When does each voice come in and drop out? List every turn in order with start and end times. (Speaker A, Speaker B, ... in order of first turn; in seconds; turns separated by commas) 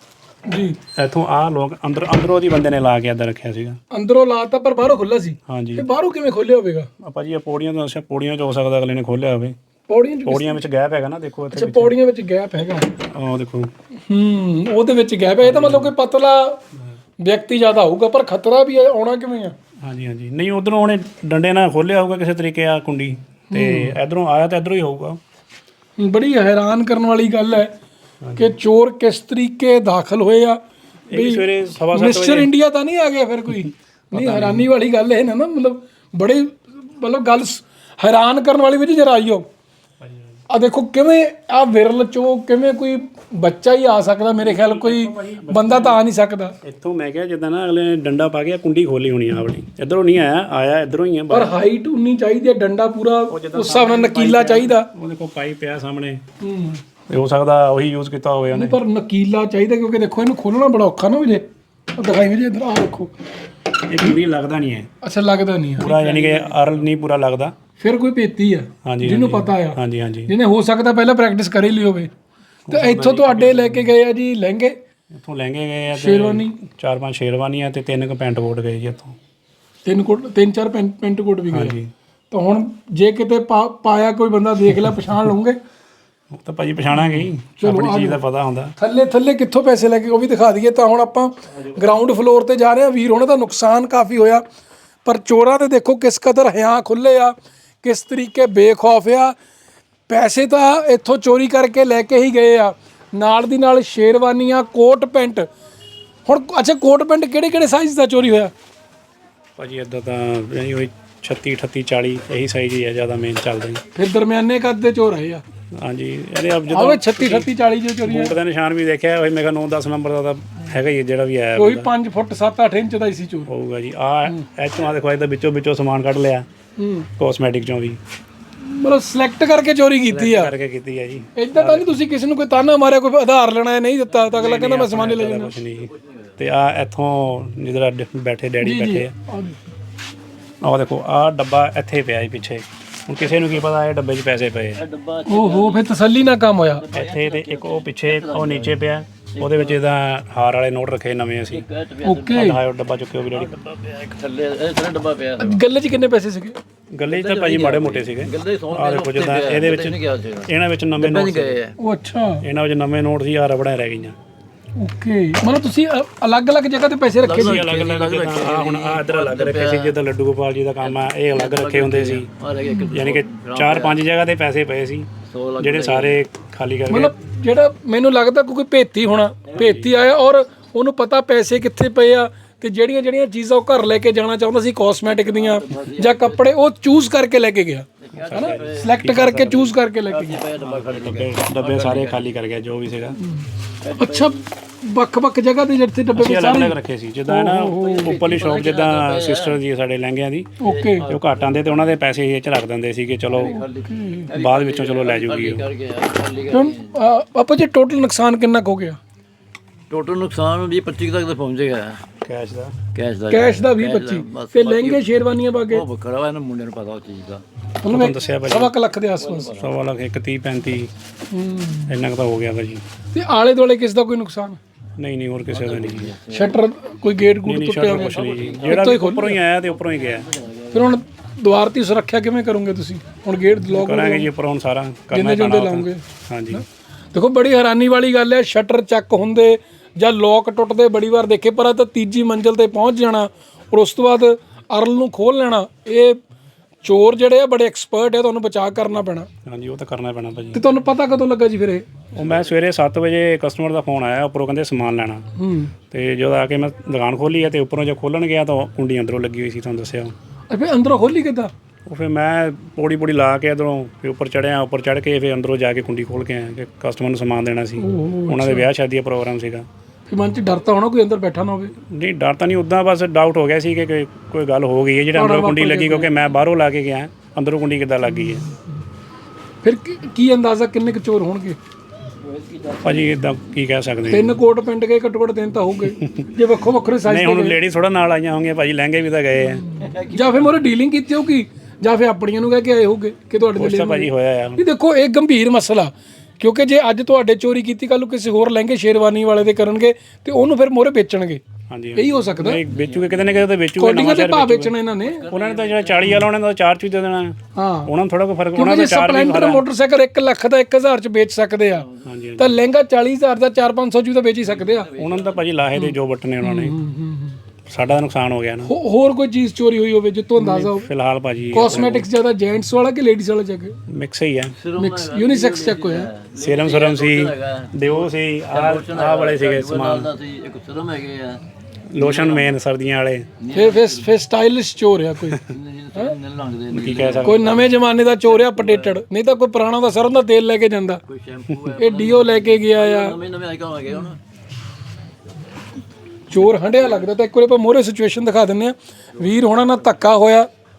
Speaker A: 0.5-0.8, Speaker B: 1.0-3.8, Speaker A: 3.9-6.9, Speaker B: 5.5-5.9, Speaker B: 7.0-9.6, Speaker A: 9.9-10.6, Speaker B: 10.3-11.9, Speaker A: 11.5-12.9, Speaker B: 13.1-13.7, Speaker A: 14.1-16.6, Speaker B: 15.4-15.9, Speaker A: 17.2-19.6, Speaker B: 19.8-25.2, Speaker A: 23.5-24.0, Speaker A: 26.0-27.7, Speaker B: 28.2-28.5, Speaker A: 28.4-30.6, Speaker B: 31.1-32.5, Speaker A: 31.1-39.5, Speaker B: 34.1-34.7, Speaker B: 40.0-40.4, Speaker A: 40.5-46.5, Speaker B: 44.4-46.0, Speaker B: 46.6-51.5, Speaker A: 51.3-54.9, Speaker B: 53.3-56.2, Speaker A: 56.4-56.8, Speaker B: 57.1-58.8, Speaker A: 58.5-63.1, Speaker B: 63.9-64.9, Speaker A: 65.0-66.5, Speaker B: 65.8-67.5, Speaker A: 67.8-72.1, Speaker B: 68.8-70.3, Speaker B: 72.7-73.9, Speaker A: 72.7-74.8, Speaker B: 75.1-79.2, Speaker A: 75.9-76.6, Speaker A: 79.8-81.8, Speaker B: 81.5-81.9, Speaker A: 82.3-85.6, Speaker B: 86.3-88.8, Speaker A: 87.0-88.2, Speaker A: 88.8-94.4, Speaker A: 95.0-99.3, Speaker A: 100.1-105.5, Speaker A: 106.3-108.5, Speaker B: 109.6-113.8, Speaker A: 114.0-115.4, Speaker B: 115.8-117.5, Speaker A: 116.7-118.3, Speaker B: 118.0-121.9, Speaker A: 121.6-123.5, Speaker B: 123.5-126.5, Speaker A: 126.8-127.1, Speaker B: 127.2-128.0, Speaker A: 128.6-130.5, Speaker B: 130.1-132.0, Speaker A: 131.4-135.6, Speaker B: 134.3-139.1, Speaker C: 135.8-136.4, Speaker A: 138.6-139.6, Speaker B: 140.6-144.8, Speaker C: 144.8-145.9, Speaker A: 145.3-146.8, Speaker C: 146.8-148.8, Speaker B: 146.9-151.7, Speaker C: 149.4-149.8, Speaker C: 151.5-152.5, Speaker A: 152.0-152.6, Speaker B: 152.3-153.6, Speaker C: 153.3-155.6, Speaker A: 155.4-156.6, Speaker B: 156.9-161.6, Speaker C: 157.1-161.8, Speaker A: 161.8-162.4, Speaker B: 162.4-164.2, Speaker A: 164.8-167.7, Speaker C: 167.2-169.9, Speaker B: 167.3-172.3, Speaker C: 170.8-174.0, Speaker A: 172.7-173.0, Speaker B: 172.9-177.1, Speaker C: 175.3-176.2, Speaker A: 176.9-190.4, Speaker B: 179.5-179.9, Speaker C: 185.1-186.5, Speaker C: 188.0-192.4, Speaker B: 188.2-189.7, Speaker B: 190.6-193.2, Speaker A: 193.2-196.8, Speaker C: 193.8-194.4, Speaker B: 196.2-203.6, Speaker A: 197.3-198.2, Speaker C: 197.7-199.6, Speaker A: 200.6-201.1, Speaker C: 200.6-202.0, Speaker C: 203.3-206.9, Speaker A: 203.5-204.3, Speaker B: 204.3-205.7, Speaker A: 206.5-209.0, Speaker C: 209.9-212.0, Speaker B: 212.2-212.8, Speaker C: 212.9-215.1, Speaker A: 213.3-215.8, Speaker C: 215.7-217.4, Speaker A: 217.8-219.5, Speaker B: 217.9-218.7, Speaker C: 219.2-219.8, Speaker B: 219.5-220.9, Speaker A: 221.3-221.9, Speaker B: 221.9-222.8, Speaker A: 223.1-224.6, Speaker B: 225.0-226.1, Speaker C: 225.5-226.6, Speaker A: 226.3-229.4, Speaker B: 227.4-230.3, Speaker C: 227.8-229.0, Speaker C: 229.7-230.9, Speaker A: 230.7-234.3, Speaker B: 233.6-236.6, Speaker A: 235.1-246.2, Speaker A: 246.8-249.3, Speaker B: 249.5-250.6, Speaker A: 250.5-251.9, Speaker B: 252.1-255.3, Speaker A: 255.4-255.7, Speaker B: 255.9-260.1, Speaker A: 260.5-261.5, Speaker B: 261.9-269.7, Speaker A: 267.8-268.7, Speaker A: 270.1-271.7, Speaker B: 271.9-278.4, Speaker A: 275.1-276.1, Speaker A: 279.6-281.6, Speaker C: 282.2-283.1, Speaker B: 282.8-284.4, Speaker A: 284.1-287.6, Speaker B: 286.0-286.3, Speaker B: 287.1-289.7, Speaker A: 289.5-301.4, Speaker C: 289.8-290.6, Speaker B: 293.6-294.6, Speaker B: 301.7-304.8, Speaker A: 301.9-302.6, Speaker C: 302.8-303.5, Speaker A: 303.8-305.3, Speaker C: 305.0-306.2, Speaker B: 305.3-309.6, Speaker A: 307.6-307.9, Speaker A: 308.5-311.9, Speaker C: 311.8-312.1, Speaker B: 312.1-312.6, Speaker A: 312.4-314.9, Speaker C: 314.4-315.5, Speaker B: 314.9-316.8, Speaker A: 315.8-317.4, Speaker B: 317.7-318.7, Speaker A: 318.6-320.9, Speaker B: 320.4-322.1, Speaker A: 321.5-323.8, Speaker B: 323.9-324.6, Speaker C: 324.6-331.4, Speaker A: 324.8-326.1, Speaker B: 326.4-330.1, Speaker B: 331.9-333.3, Speaker C: 332.0-332.6, Speaker C: 333.4-334.2, Speaker A: 333.5-335.4, Speaker C: 335.4-339.0, Speaker B: 336.7-337.6, Speaker A: 337.2-341.0, Speaker C: 341.1-344.2, Speaker A: 341.8-343.2, Speaker A: 346.3-350.5, Speaker C: 346.4-347.1, Speaker C: 349.2-350.0